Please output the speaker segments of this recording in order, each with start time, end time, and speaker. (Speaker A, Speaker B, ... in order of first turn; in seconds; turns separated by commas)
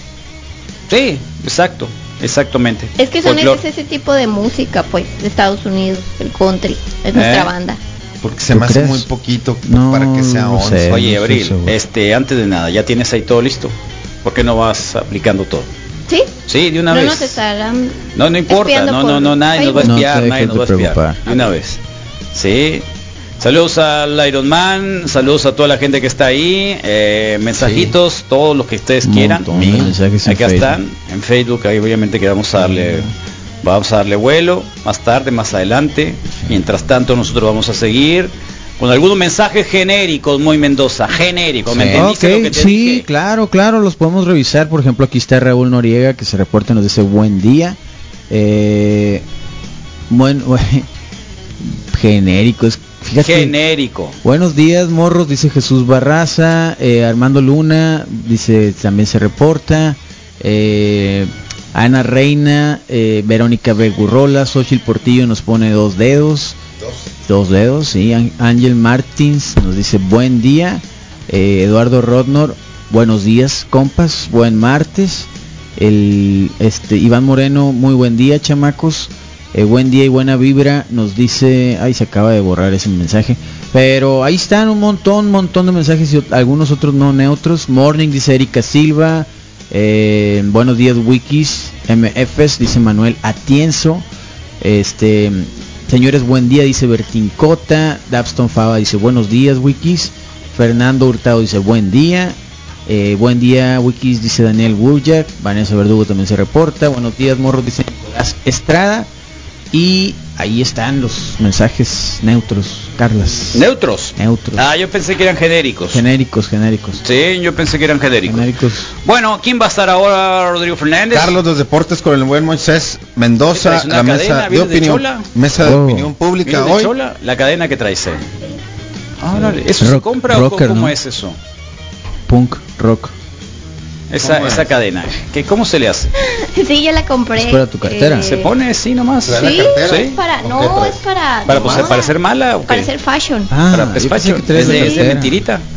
Speaker A: 0.9-3.6, Speaker B: 3.0-7.8, Speaker A: 7.1-7.5, Speaker C: 8.2-11.0, Speaker D: 8.5-9.1, Speaker D: 9.7-11.8, Speaker A: 10.9-15.7, Speaker B: 16.1-16.3, Speaker A: 16.5-17.4, Speaker B: 16.9-20.0, Speaker A: 18.1-21.8, Speaker D: 19.8-21.2, Speaker A: 22.3-22.8, Speaker A: 23.4-33.1, Speaker C: 27.6-27.9, Speaker D: 29.0-30.8, Speaker C: 29.5-29.9, Speaker A: 33.6-43.0, Speaker C: 41.7-42.1, Speaker D: 41.9-47.8, Speaker D: 48.3-49.2, Speaker D: 50.1-50.9, Speaker D: 51.6-53.5, Speaker A: 53.2-54.2, Speaker D: 54.2-66.6, Speaker D: 67.2-94.0, Speaker D: 94.6-109.1, Speaker D: 109.7-113.7, Speaker A: 113.5-116.0, Speaker D: 114.2-114.7, Speaker D: 115.9-117.0, Speaker A: 117.0-118.5, Speaker D: 118.3-118.9, Speaker A: 119.0-121.4, Speaker C: 121.1-126.9, Speaker A: 123.5-125.3, Speaker D: 125.6-126.1, Speaker A: 126.4-128.3, Speaker A: 129.2-131.4, Speaker D: 129.3-130.9, Speaker D: 132.3-133.1, Speaker A: 134.1-136.1, Speaker C: 134.2-134.7, Speaker B: 136.2-138.5, Speaker D: 137.4-138.3, Speaker A: 138.2-140.2, Speaker C: 139.2-142.0, Speaker B: 139.4-142.2, Speaker A: 141.5-142.9, Speaker B: 142.7-143.5, Speaker D: 143.5-145.4, Speaker A: 143.7-145.6, Speaker B: 144.7-145.1